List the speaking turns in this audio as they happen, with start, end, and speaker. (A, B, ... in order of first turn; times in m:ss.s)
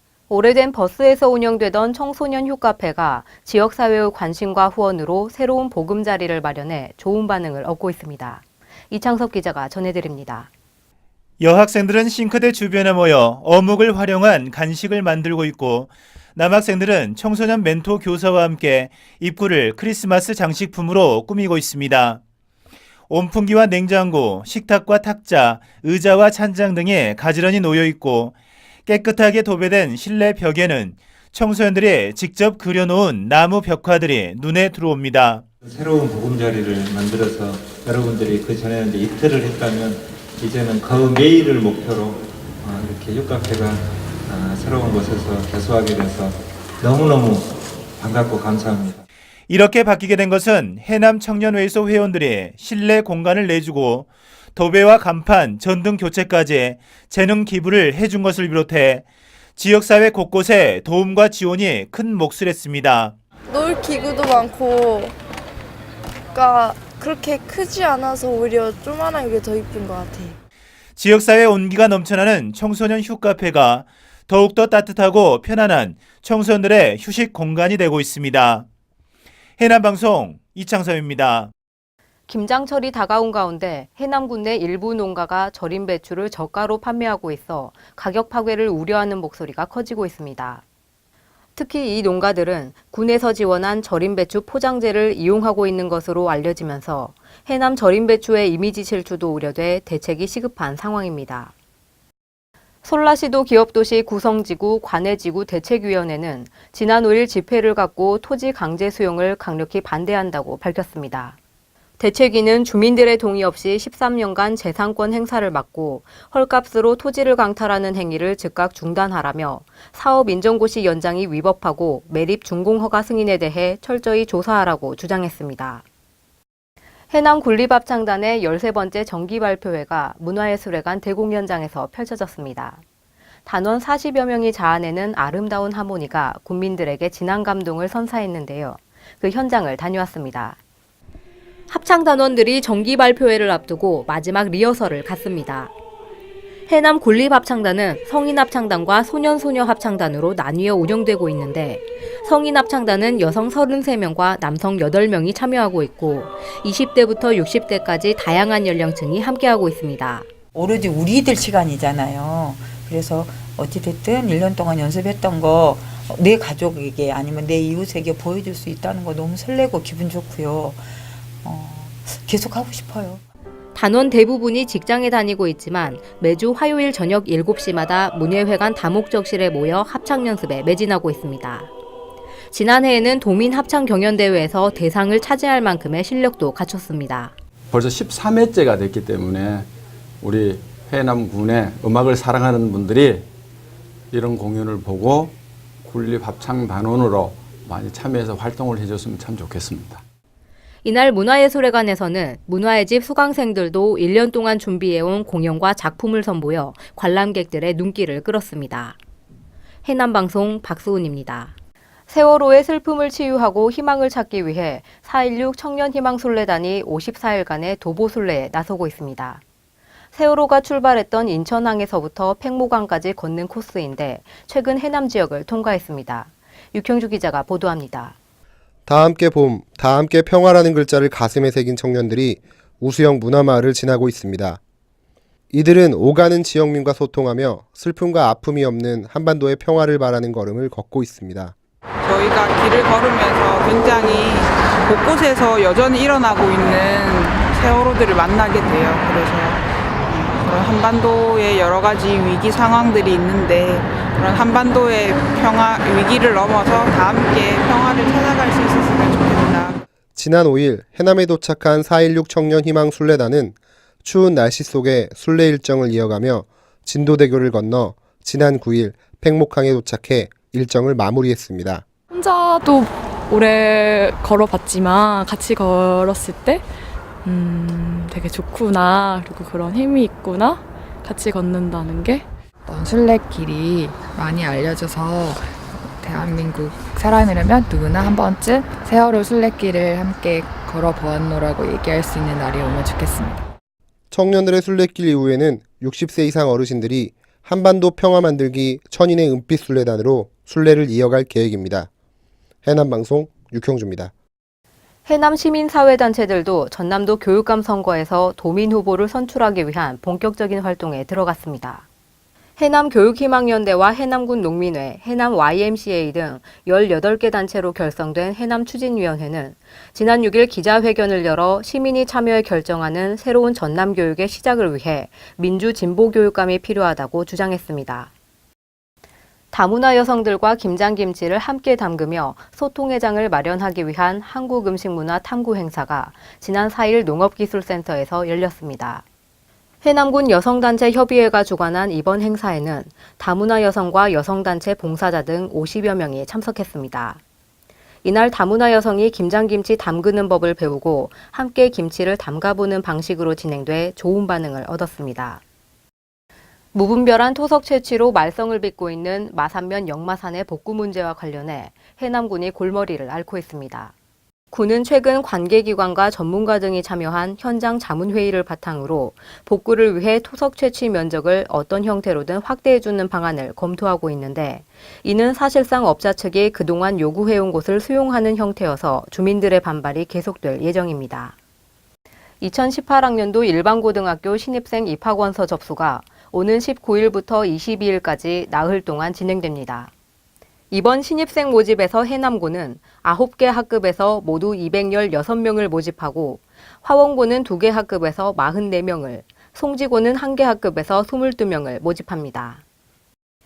0:00.3-0:10.5 A
0:11.4-0:22.2 B
0:23.1-0:28.3 B
0:28.9-0:35.4 B
0:35.6-0:49.0 C
0:49.5-0:59.0 B
0:59.6-1:03.1 B
1:03.5-1:05.1 D
1:06.4-1:10.4 D
1:11.0-1:18.6 B
1:19.6-1:21.5 B
1:22.3-1:30.6 A
1:31.6-1:41.5 A
1:42.8-1:51.4 A
1:52.0-2:05.8 A
2:07.1-2:12.8 A
2:13.5-2:20.6 A
2:21.7-2:25.7 A
2:26.7-2:40.3 A
2:40.5-2:50.9 E
2:51.4-2:53.2 E
2:53.8-3:01.7 A
3:02.5-3:07.3 A
3:07.7-3:09.7 F
3:10.2-3:13.3 F
3:14.1-3:20.0 F
3:20.8-3:29.0 A
3:29.8-3:31.5 A
3:32.1-3:39.4 A
3:40.1-3:48.2 A
3:48.9-3:54.6 G
3:55.5-4:01.6 G
4:02.0-4:19.8 H
4:20.2-4:31.8 G
4:32.1-4:36.7 I
4:37.2-4:42.2 I
4:42.7-4:53.4 J
4:54.1-5:01.9 G
5:02.6-5:04.1 G
5:05.1-5:11.9 A
5:12.6-5:28.1 A
5:29.5-5:39.0 A
5:39.8-5:47.2 A
5:48.0-5:55.4 A
5:56.7-6:03.9 A
6:04.5-6:21.4 A
6:22.4-6:29.9 A
6:30.7-6:42.6 A